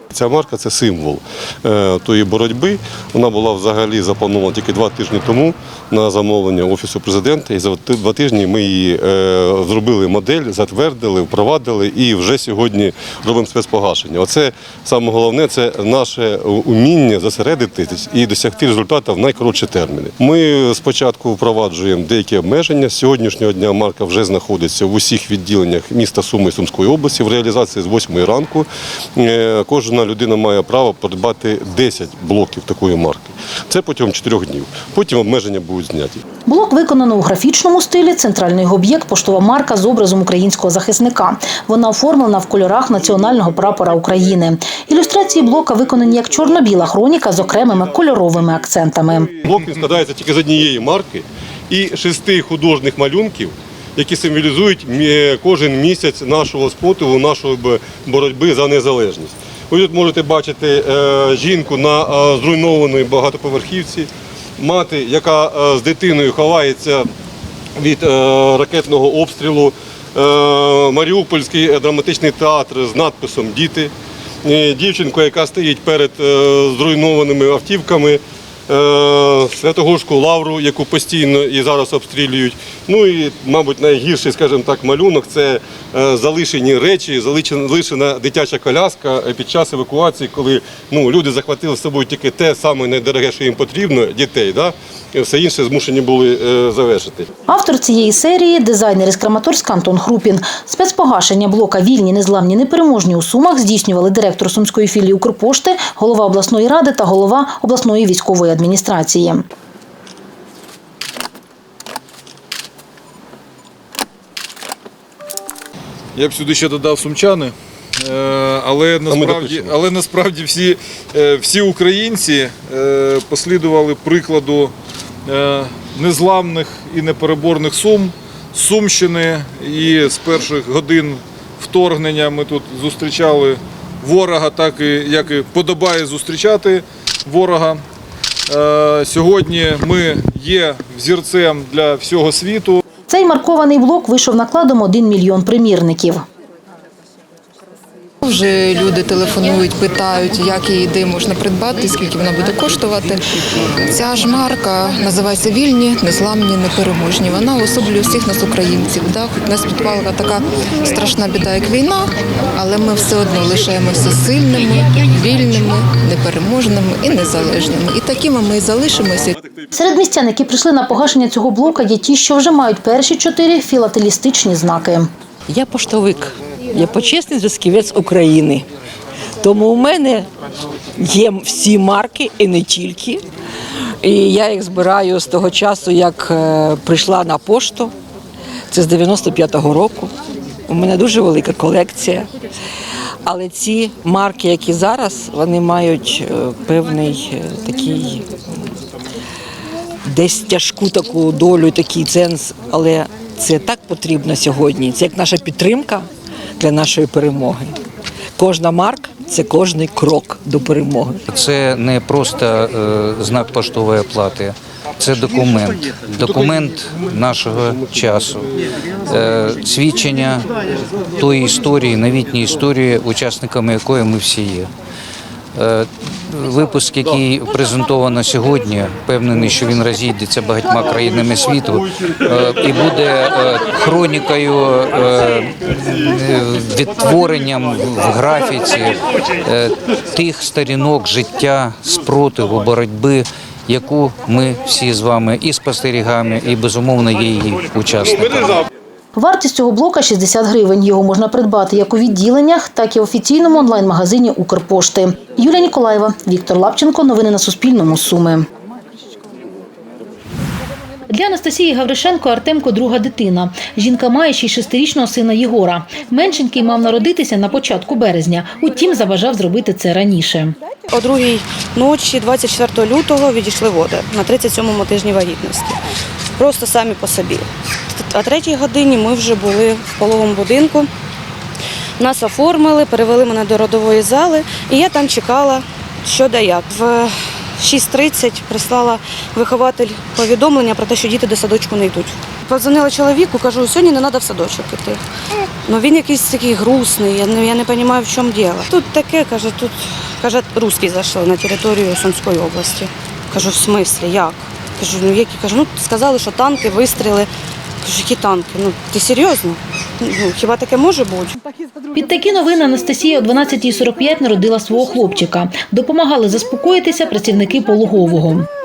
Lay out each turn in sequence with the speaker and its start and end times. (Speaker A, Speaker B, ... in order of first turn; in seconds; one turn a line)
Speaker A: 0.1-36.2
Speaker B: 36.5-49.3
Speaker A: 49.5-67.1
Speaker A: 67.8-73.9
Speaker A: 74.4-97.3
Speaker B: 97.5-109.4
Speaker C: 116.2-124.7
Speaker A: 119.1-119.8
Speaker C: 125.2-137.8
Speaker C: 138.5-142.8
Speaker B: 143.1-146.2
Speaker D: 148.2-153.2
Speaker D: 153.8-169.3
Speaker B: 169.7-175.1
Speaker E: 175.5-178.7
Speaker E: 179.4-180.3
Speaker E: 181.0-183.2
Speaker E: 184.0-187.9
Speaker E: 188.7-190.1
Speaker E: 190.7-192.3
Speaker E: 193.2-198.4
Speaker E: 200.1-207.8
Speaker E: 208.4-211.2
Speaker F: 211.3-218.4
Speaker F: 219.1-220.4
Speaker F: 221.2-224.7
Speaker F: 225.5-248.6
Speaker B: 249.2-258.5
Speaker B: 261.1-270.6
Speaker G: 270.9-275.8
Speaker G: 276.4-280.9
Speaker G: 282.0-295.0
Speaker G: 295.6-307.3
Speaker G: 307.8-311.3
Speaker B: 311.9-318.5